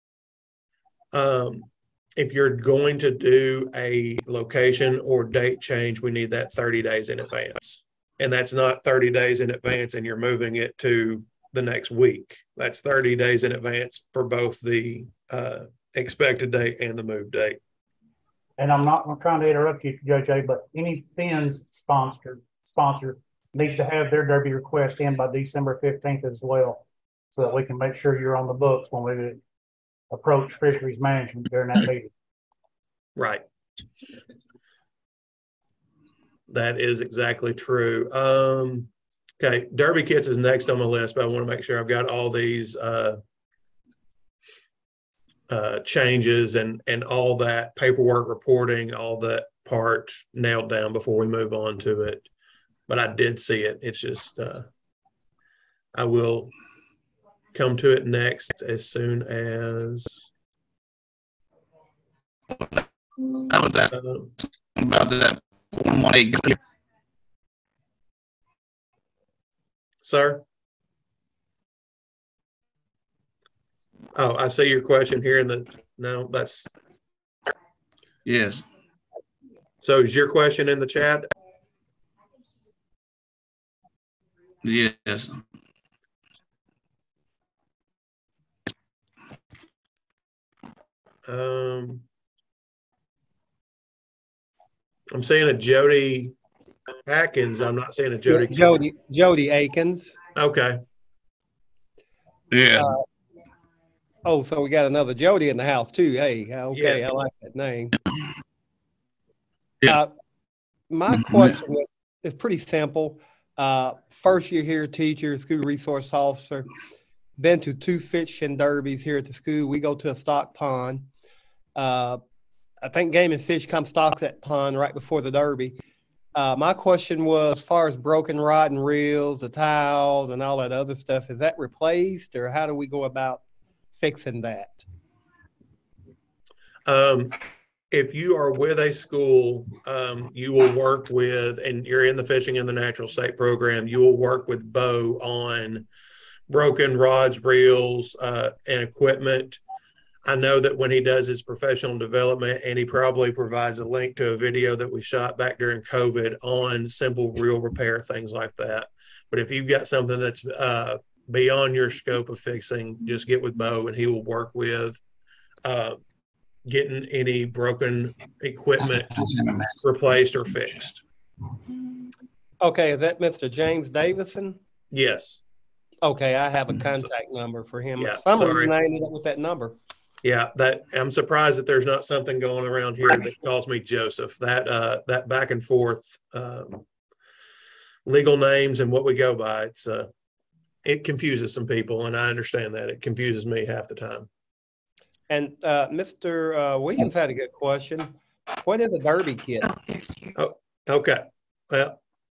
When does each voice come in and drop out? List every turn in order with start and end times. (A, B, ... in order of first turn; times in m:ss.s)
0:01.1-0:17.6 A
0:18.6-0:26.8 B
0:27.3-0:29.4 B
0:30.1-0:32.1 B
0:33.2-0:33.4 A
0:36.5-0:43.2 A
0:45.5-0:52.2 A
0:52.9-0:54.7 A
0:55.9-0:56.5 A
0:57.5-1:00.3 A
1:03.4-1:03.9 C
1:03.9-1:04.3 A
1:04.8-1:06.6 C
1:10.0-1:10.4 A
1:14.1-1:16.7 A
1:18.2-1:18.6 C
1:19.8-1:21.2 A
1:24.6-1:25.4 C
1:31.2-1:32.0 A
1:35.1-1:36.3 A
1:37.0-1:38.8 A
1:38.3-1:40.2 D
1:40.3-1:40.8 A
1:42.5-1:42.9 C
1:42.7-1:43.0 D
1:44.2-1:47.9 D
1:46.7-1:47.2 A
1:49.8-1:50.1 D
1:50.9-1:56.7 D
1:57.4-2:01.1 D
2:01.8-2:02.2 D
2:02.8-2:05.8 D
2:06.3-2:13.4 D
2:14.0-2:14.8 D
2:16.8-2:25.8 A
2:26.5-2:29.6 A
2:30.2-2:45.0 A
2:45.6-2:46.0 A
2:46.6-2:51.0 A
2:49.3-2:49.6 C
2:52.6-2:54.6 D
2:54.9-2:55.4 A
2:56.0-2:59.8 D
2:58.0-2:58.7 A
3:00.2-3:06.8 A
3:08.0-3:10.1 A
3:10.8-3:14.3 A
3:15.3-3:19.7 D
3:20.4-3:22.0 A